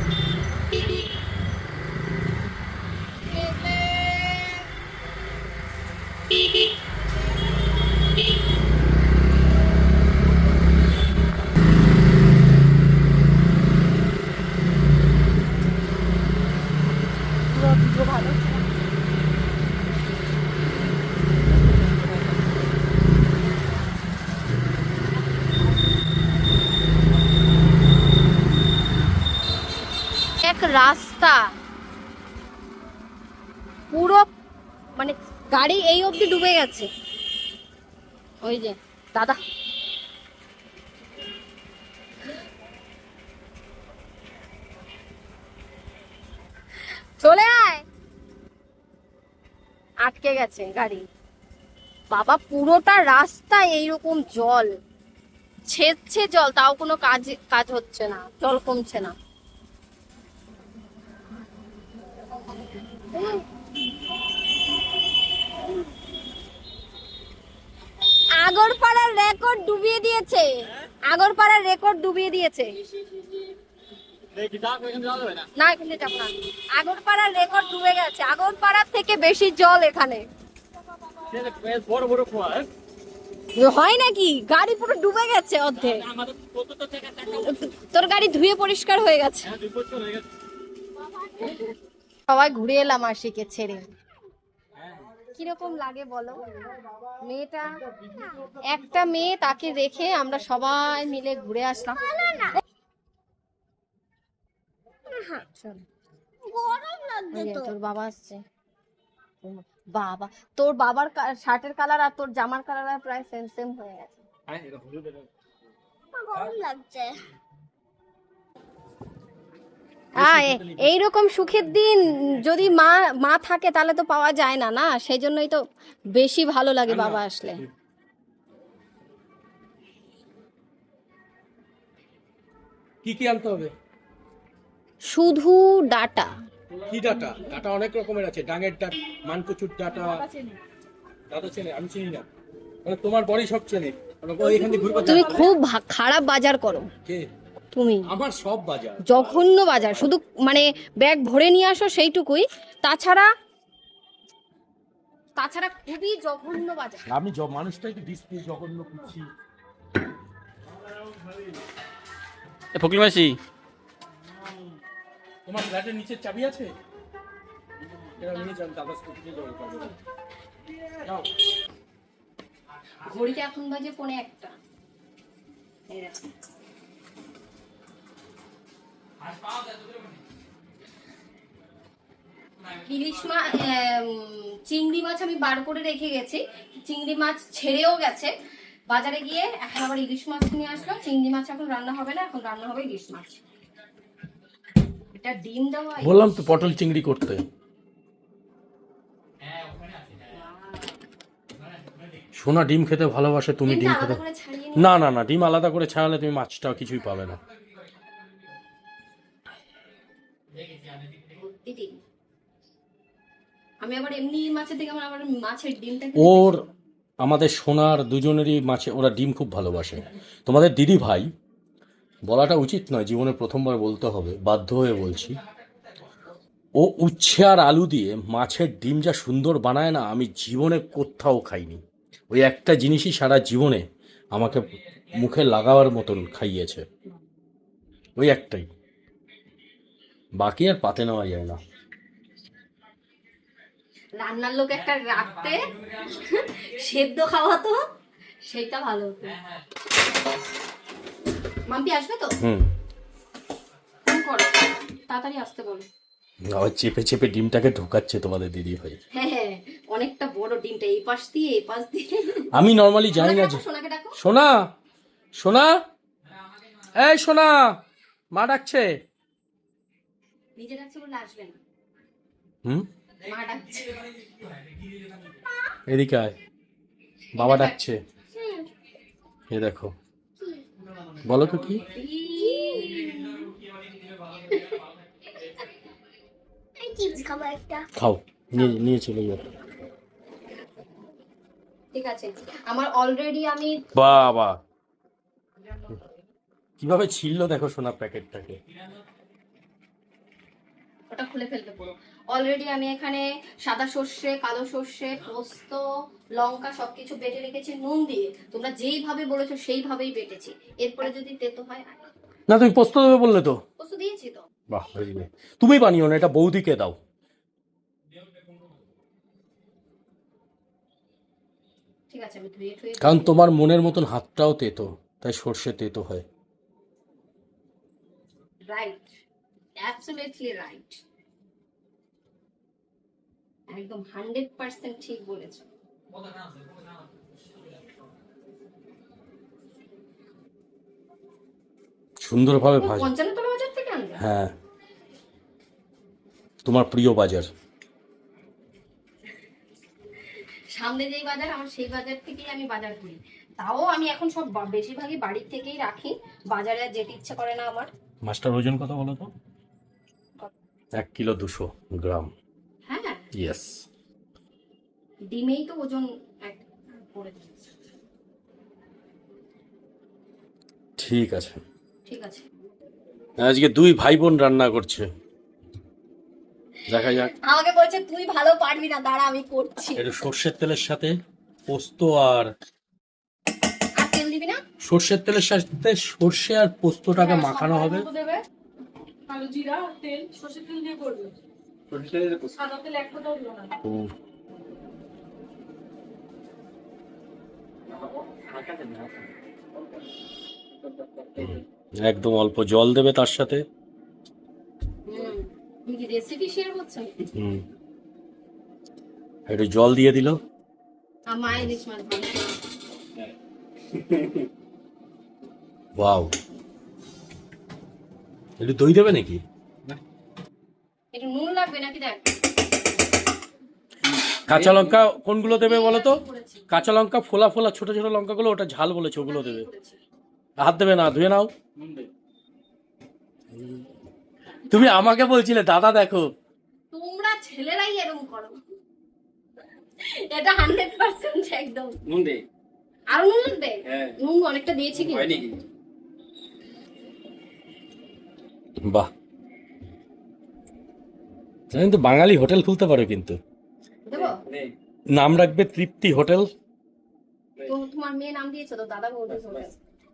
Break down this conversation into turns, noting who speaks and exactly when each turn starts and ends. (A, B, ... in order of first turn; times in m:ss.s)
0:17.6-0:18.5 A
0:30.4-0:31.4 B
0:33.9-0:34.2 B
0:35.0-0:36.9 B
0:38.4-0:39.4 B
0:47.2-0:47.8 B
0:50.0-0:51.0 B
0:52.1-0:54.7 B
0:55.7-0:59.1 B
1:03.1-1:03.4 B
1:08.4-1:12.8 B
1:14.4-1:15.4 C
1:15.6-1:20.2 B
1:21.4-1:22.7 C
1:23.6-1:26.1 B
1:27.2-1:29.5 B
1:29.8-1:30.0 C
1:32.3-1:33.9 B
1:35.3-1:37.7 B
1:38.5-1:42.5 B
1:42.2-1:42.6 D
1:45.2-1:45.8 B
1:46.4-1:47.7 D
1:47.3-1:48.4 B
1:49.4-1:54.2 B
1:54.5-1:55.2 C
1:56.1-1:57.2 D
2:00.2-2:05.6 B
2:00.2-2:01.0 E
2:06.1-2:07.6 B
2:06.9-2:07.7 E
2:13.0-2:13.7 E
2:15.0-2:16.3 B
2:16.7-2:20.2 E
2:19.9-2:20.6 A
2:21.3-2:22.2 E
2:22.8-2:25.5 E
2:24.6-2:25.1 A
2:24.9-2:26.9 B
2:27.7-2:28.1 B
2:28.1-2:29.4 E
2:29.0-2:33.3 B
2:35.4-2:37.0 B
2:37.1-2:39.3 E
2:42.7-2:43.4 C
2:45.5-2:46.7 E
2:48.2-2:50.0 E
2:53.0-2:54.5 B
2:55.9-2:56.2 B
3:02.7-3:08.3 B
3:08.9-3:13.4 B
3:15.1-3:16.3 B
3:16.0-3:17.4 E
3:20.2-3:20.9 B
3:22.4-3:24.2 E
3:23.7-3:24.9 B
3:24.8-3:27.4 E
3:31.2-3:32.0 B
3:33.8-3:36.7 B
3:36.2-3:36.6 E
3:37.2-3:41.3 E
3:42.3-3:45.4 E
3:46.8-3:56.9 E
3:58.2-3:58.7 E
4:00.4-4:01.6 E
4:04.2-4:07.8 B
4:08.4-4:09.4 B
4:11.7-4:12.4 B
4:12.4-4:12.7 E
4:14.0-4:15.9 B
4:16.4-4:19.0 E
4:19.1-4:22.5 B
4:22.5-4:23.6 E
4:23.1-4:24.2 B
4:24.2-4:24.6 E
4:25.4-4:25.8 E
4:26.9-4:27.6 E
4:28.3-4:28.9 E
4:30.6-4:31.6 B
4:33.2-4:34.0 B
4:35.9-4:36.4 E
4:37.4-4:37.8 B
4:37.4-4:38.0 E
4:38.4-4:38.6 D
4:39.5-4:39.9 E
4:41.2-4:41.8 E
4:41.9-4:43.4 B
4:42.4-4:43.4 D
4:46.8-4:47.9 D
4:48.0-4:49.4 E
4:51.9-4:53.8 B
4:53.9-4:54.6 E
4:56.8-4:58.6 E
5:01.1-5:05.8 B
5:06.4-5:12.0 B
5:12.5-5:13.6 E
5:13.8-5:14.5 B
5:14.7-5:17.0 E
5:22.1-5:23.3 B
5:23.0-5:26.3 E
5:28.7-5:29.0 B
5:29.8-5:31.0 B
5:33.7-5:35.7 B
5:42.2-5:43.1 E
5:42.8-5:44.2 B
5:44.2-5:44.6 E
5:46.6-5:47.5 E
5:50.8-5:57.9 B
5:58.2-5:59.3 E
6:01.0-6:02.3 E
6:02.9-6:03.2 B
6:03.4-6:03.8 E
6:05.3-6:07.7 B
6:11.0-6:11.6 E
6:12.1-6:12.4 B
6:13.4-6:15.1 E
6:16.9-6:17.3 E
6:17.4-6:20.0 B
6:20.0-6:21.1 E
6:21.7-6:22.5 E
6:24.0-6:24.6 B
6:24.8-6:28.1 E
6:27.2-6:28.4 A
6:29.3-6:31.4 A
6:31.9-6:32.5 C
6:32.6-6:33.7 A
6:33.8-6:34.1 E
6:37.9-6:39.3 C
6:40.8-6:41.6 C
6:41.4-6:43.6 E
6:45.1-6:47.2 B
6:47.3-6:47.6 E
6:49.5-6:50.4 E
6:51.3-6:52.5 B
6:53.9-6:54.5 C
6:56.0-6:56.3 E
6:58.6-6:59.4 E
7:01.1-7:02.2 B
7:04.3-7:05.0 C
7:04.5-7:09.7 E
7:05.4-7:06.9 B
7:09.2-7:10.0 B
7:10.6-7:11.5 E
7:11.8-7:12.1 C
7:14.7-7:16.3 E
7:16.9-7:18.6 B
7:20.0-7:21.9 B
7:22.1-7:22.4 C
7:23.1-7:25.4 B
7:23.9-7:24.2 C
7:24.9-7:25.6 C
7:28.8-7:29.1 E
7:31.7-7:33.4 E
7:34.1-7:34.4 B
7:34.1-7:34.7 C
7:35.1-7:36.5 E
7:37.7-7:39.7 B
7:39.3-7:39.7 C